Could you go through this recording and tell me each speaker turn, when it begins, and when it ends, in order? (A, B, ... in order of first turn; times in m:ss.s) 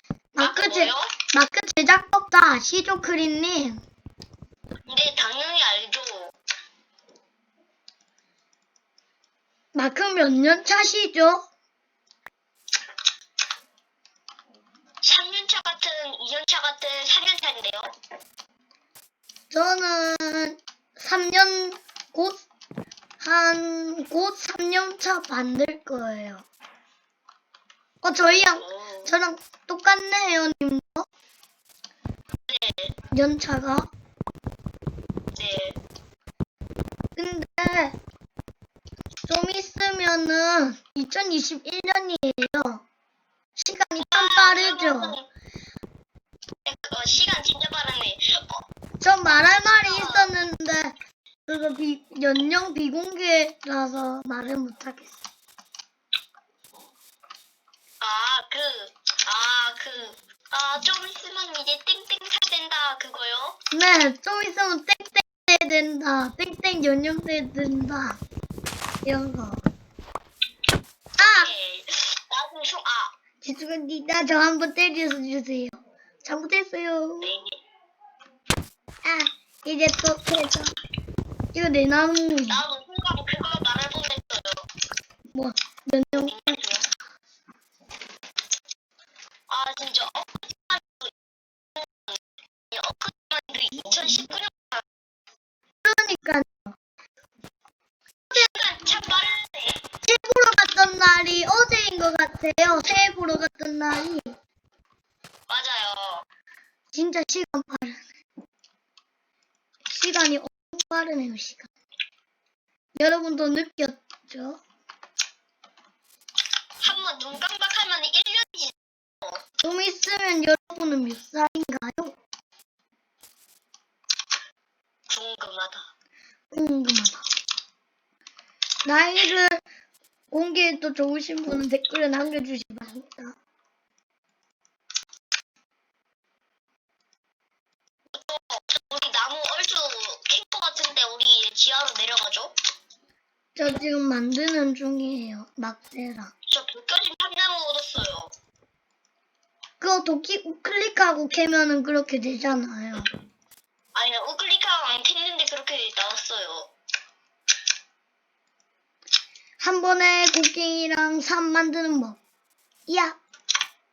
0:00.3-0:03.8 A
0:00.4-0:01.1 B
0:04.8-0:06.3 B
0:09.7-0:11.4 A
0:15.0-0:17.9 B
0:19.5-0:22.4 A
0:23.2-0:26.4 A
0:28.0-0:31.1 A
0:28.2-0:29.1 B
0:32.5-0:32.9 B
0:33.1-0:33.9 A
0:35.3-0:35.8 B
0:37.2-0:38.0 A
0:39.3-0:42.8 A
0:43.6-0:45.1 A
0:44.0-0:45.3 B
0:46.6-0:48.6 B
0:49.0-0:51.0 A
0:49.3-0:50.3 B
0:51.5-0:55.1 A
0:58.0-1:03.6 B
1:03.7-1:08.2 A
1:09.0-1:09.6 A
1:11.2-1:11.5 A
1:11.2-1:13.1 B
1:13.4-1:17.3 A
1:17.2-1:17.6 B
1:19.0-1:20.7 A
1:21.5-1:22.6 A
1:22.5-1:24.7 B
1:25.3-1:26.4 A
1:26.1-1:26.9 B
1:29.5-1:31.1 B
1:31.8-1:32.2 B
1:32.7-1:34.8 B
1:35.8-1:36.8 A
1:38.3-1:39.8 B
1:40.0-1:44.4 A
1:45.5-1:46.2 B
1:46.9-1:48.0 A
1:49.9-1:51.7 A
1:53.0-1:54.6 A
1:56.8-1:59.4 B
1:59.6-2:02.2 A
2:05.1-2:05.8 B
2:06.5-2:07.2 A
2:08.8-2:09.6 A
2:10.3-2:13.4 A
2:18.1-2:22.5 B
2:23.6-2:26.3 A
2:26.5-2:28.3 B
2:29.8-2:33.1 A
2:33.9-2:36.7 B
2:39.6-2:42.2 A
2:42.9-2:43.2 A